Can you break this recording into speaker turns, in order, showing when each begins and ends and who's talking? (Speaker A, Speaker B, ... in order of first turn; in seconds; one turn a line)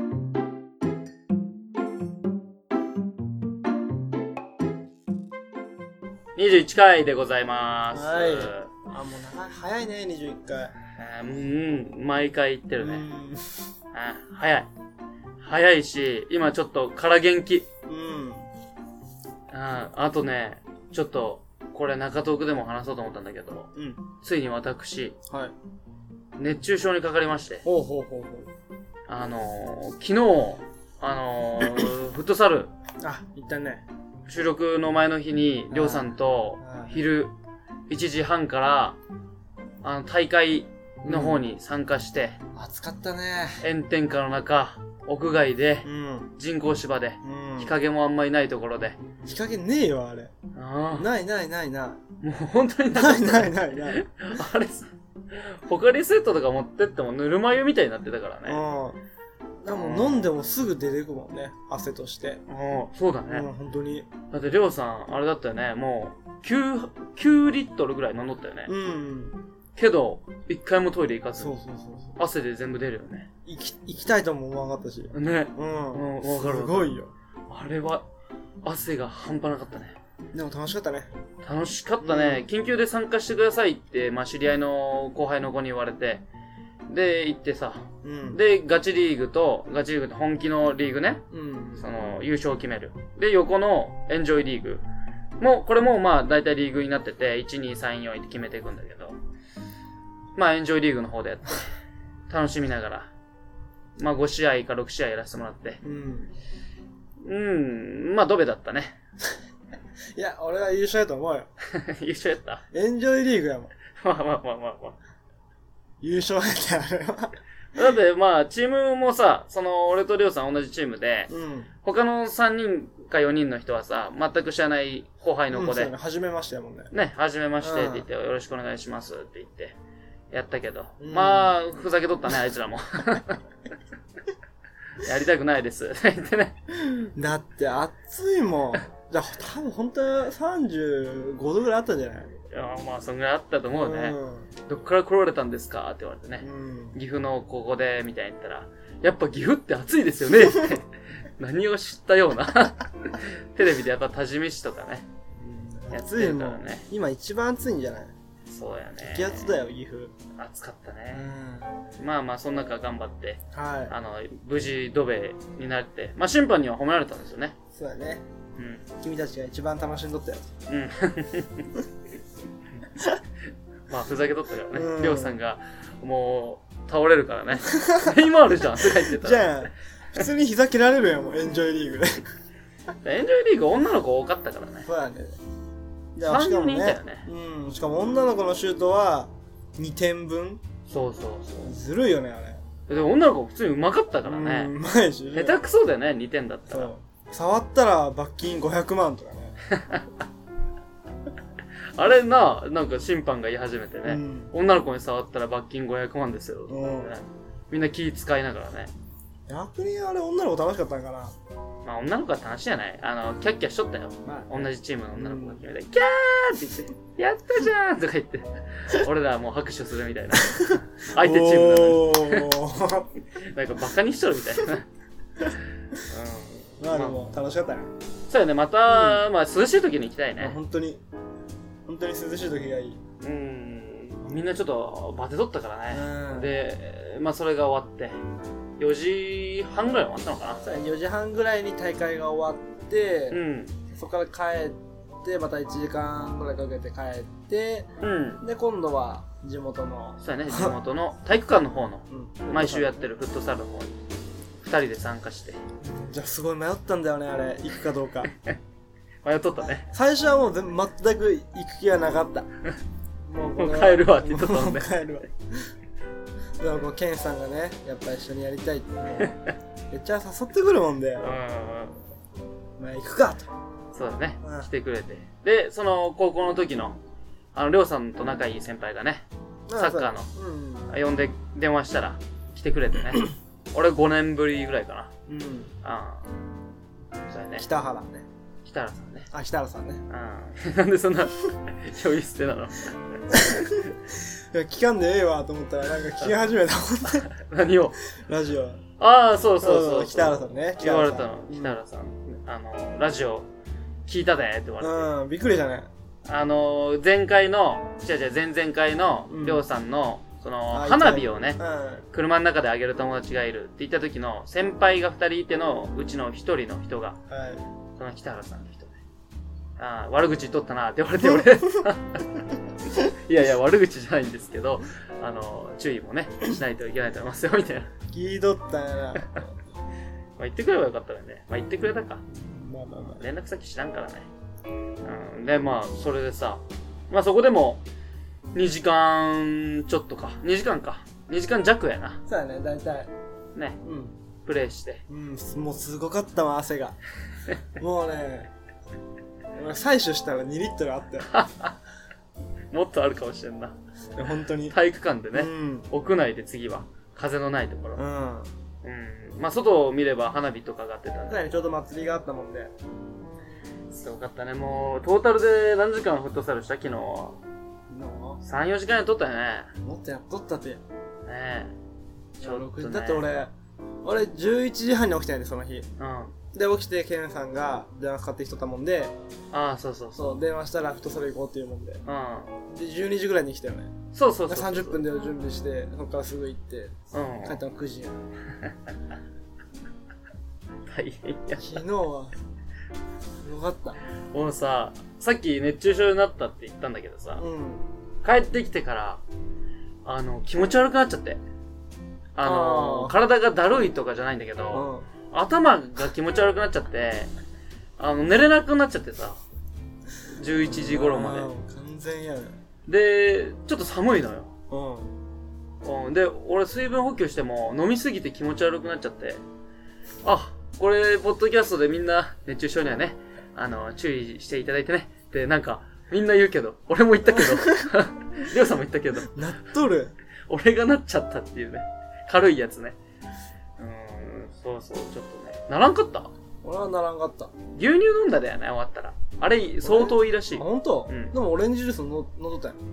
Speaker A: 6.4-8.7
Speaker B: 7.9-10.8
Speaker A: 10.9-13.1
Speaker B: 12.8-13.7
Speaker A: 13.9-14.7
Speaker A: 15.4-17.7
Speaker B: 17.9-18.5
Speaker A: 19.5-25.2
Speaker B: 23.7-24.0
Speaker B: 25.3-25.5
Speaker A: 26.4-27.6
Speaker B: 27.6-28.5
Speaker A: 29.1-32.7
Speaker B: 33.0-33.8
Speaker A: 34.3-37.3
Speaker B: 35.7-37.0
Speaker A: 37.9-39.0
Speaker A: 39.8-42.4
Speaker B: 41.0-41.5
Speaker B: 42.5-43.7
Speaker A: 43.6-49.0
Speaker B: 45.8-46.3
Speaker B: 47.2-47.7
Speaker B: 49.2-50.3
Speaker A: 50.5-51.1
Speaker B: 50.9-52.0
Speaker A: 52.2-58.6
Speaker B: 52.9-54.0
Speaker B: 58.5-59.0
Speaker B: 59.6-62.4
Speaker A: 59.7-60.3
Speaker A: 62.5-63.5
Speaker B: 63.3-64.1
Speaker A: 64.3-68.7
Speaker B: 68.7-69.4
Speaker A: 69.8-71.6
Speaker B: 71.4-72.2
Speaker A: 72.2-73.3
Speaker B: 73.4-77.1
Speaker A: 75.1-76.9
Speaker A: 77.5-78.1
Speaker A: 78.6-80.0
Speaker B: 80.3-81.1
Speaker A: 81.4-86.2
Speaker B: 82.0-82.5
Speaker A: 86.9-91.2
Speaker B: 88.0-88.4
Speaker B: 91.3-91.9
Speaker A: 91.8-94.8
Speaker A: 95.4-99.2
Speaker A: 100.3-101.7
Speaker A: 102.3-103.1
Speaker A: 104.0-105.8
Speaker B: 105.8-106.3
Speaker A: 107.2-109.0
Speaker B: 110.2-111.5
Speaker A: 111.6-112.6
Speaker B: 112.7-113.7
Speaker A: 113.9-115.0
Speaker B: 116.0-117.8
Speaker A: 117.7-121.3
Speaker B: 121.3-121.7
Speaker A: 121.8-125.9
Speaker B: 125.5-126.9
Speaker A: 126.9-129.8
Speaker B: 127.6-128.1
Speaker A: 130.3-133.4
Speaker B: 131.0-131.5
Speaker A: 135.0-136.7
Speaker B: 137.0-142.4
Speaker A: 142.5-155.1
Speaker B: 143.7-144.5
Speaker B: 146.4-146.9
Speaker B: 155.3-158.1
Speaker A: 155.9-156.8
Speaker A: 158.5-159.6
Speaker B: 159.0-160.1
Speaker A: 160.3-161.3
Speaker B: 161.1-161.8
Speaker A: 162.0-167.6
Speaker B: 163.5-163.9
Speaker B: 167.7-168.2
Speaker A: 168.6-168.8
Speaker B: 169.0-170.4
Speaker A: 170.7-171.8
Speaker A: 173.9-179.7
Speaker B: 174.7-175.4
Speaker B: 177.6-182.3
Speaker A: 183.0-184.9
Speaker B: 184.8-185.4
Speaker B: 186.1-190.6
Speaker A: 186.2-187.2
Speaker A: 190.9-191.8
Speaker B: 191.6-192.6
Speaker A: 192.9-194.7
Speaker B: 194.2-195.6
Speaker A: 195.3-196.9
Speaker B: 196.7-199.6
Speaker A: 199.7-200.2
Speaker A: 201.9-208.9
Speaker B: 204.0-204.5
Speaker B: 206.7-207.1
Speaker B: 209.5-211.3
Speaker A: 211.8-222.5
Speaker B: 214.2-215.6
Speaker B: 220.4-223.1
Speaker A: 223.3-224.9
Speaker A: 226.1-227.2
Speaker B: 226.8-227.9
Speaker A: 228.3-230.6
Speaker B: 228.9-229.2
Speaker B: 230.4-231.0
Speaker B: 231.8-233.0
Speaker A: 233.2-238.2
Speaker B: 235.9-236.5
Speaker A: 238.8-240.6
Speaker B: 240.6-247.9
Speaker A: 243.3-243.8
Speaker A: 248.0-248.4
Speaker B: 248.4-250.8
Speaker A: 250.2-254.0
Speaker B: 252.1-253.1
Speaker A: 254.6-255.6
Speaker B: 255.8-258.3
Speaker A: 259.2-259.9
Speaker B: 259.6-262.5
Speaker B: 263.2-265.7
Speaker A: 263.6-264.9
Speaker B: 266.6-269.4
Speaker A: 269.2-269.4
Speaker B: 269.9-271.4
Speaker A: 271.2-272.0
Speaker B: 272.8-273.5
Speaker A: 273.9-277.0
Speaker B: 274.4-274.7
Speaker A: 277.5-279.2
Speaker B: 279.7-280.9
Speaker A: 279.8-280.3
Speaker A: 280.9-285.1
Speaker B: 285.3-285.7
Speaker A: 285.8-286.3
Speaker A: 287.3-287.7
Speaker B: 287.6-288.2
Speaker A: 288.6-289.3
Speaker B: 289.3-290.1
Speaker A: 290.1-293.7
Speaker B: 293.3-297.3
Speaker A: 297.3-298.0
Speaker B: 298.1-298.8
Speaker A: 299.0-303.5
Speaker B: 299.6-301.8
Speaker A: 304.1-305.1
Speaker B: 304.8-305.9
Speaker A: 306.2-311.6
Speaker B: 309.3-309.6
Speaker B: 310.7-312.0
Speaker A: 312.1-317.2
Speaker B: 317.3-317.6
Speaker A: 317.9-319.0
Speaker A: 319.8-327.9
Speaker B: 328.1-329.6
Speaker A: 330.4-332.2
Speaker B: 332.3-333.2
Speaker A: 333.2-334.3
Speaker A: 335.0-337.8
Speaker A: 338.5-342.2
Speaker B: 342.3-343.1
Speaker B: 343.8-344.1
Speaker A: 344.4-345.0
Speaker B: 345.1-347.0
Speaker B: 347.8-348.5
Speaker B: 349.5-351.3
Speaker A: 351.3-351.8
Speaker A: 352.7-353.8
Speaker B: 354.1-354.8
Speaker A: 354.6-358.1
Speaker B: 355.3-355.9
Speaker B: 357.9-358.5
Speaker A: 358.8-361.4
Speaker B: 361.3-362.7
Speaker A: 363.9-367.4
Speaker B: 367.9-368.4
Speaker A: 368.4-369.7
Speaker B: 369.8-370.8
Speaker A: 371.2-371.8
Speaker B: 372.4-373.5
Speaker A: 372.4-373.4
Speaker B: 374.0-375.9
Speaker A: 376.0-376.3
Speaker B: 376.5-379.1
Speaker A: 379.5-380.4
Speaker B: 380.1-382.0
Speaker A: 382.1-382.6
Speaker B: 382.7-383.9
Speaker A: 384.1-385.0
Speaker B: 384.5-388.2
Speaker A: 387.1-387.6
Speaker A: 390.9-391.8
Speaker B: 391.6-392.3
Speaker B: 393.4-394.0
Speaker A: 394.3-397.4
Speaker B: 397.4-397.9
Speaker A: 398.2-399.2
Speaker A: 400.1-401.4
Speaker A: 402.3-407.3
Speaker B: 402.4-403.2
Speaker B: 404.7-405.1
Speaker A: 408.0-409.4
Speaker A: 410.3-411.5
Speaker B: 410.7-412.6
Speaker A: 412.9-414.5
Speaker B: 414.7-415.1
Speaker A: 415.8-419.4
Speaker A: 420.2-429.4
Speaker B: 427.3-427.9
Speaker B: 429.3-430.1
Speaker A: 430.5-433.0
Speaker A: 433.8-436.3
Speaker B: 436.6-437.5
Speaker A: 437.8-441.3
Speaker B: 439.8-442.8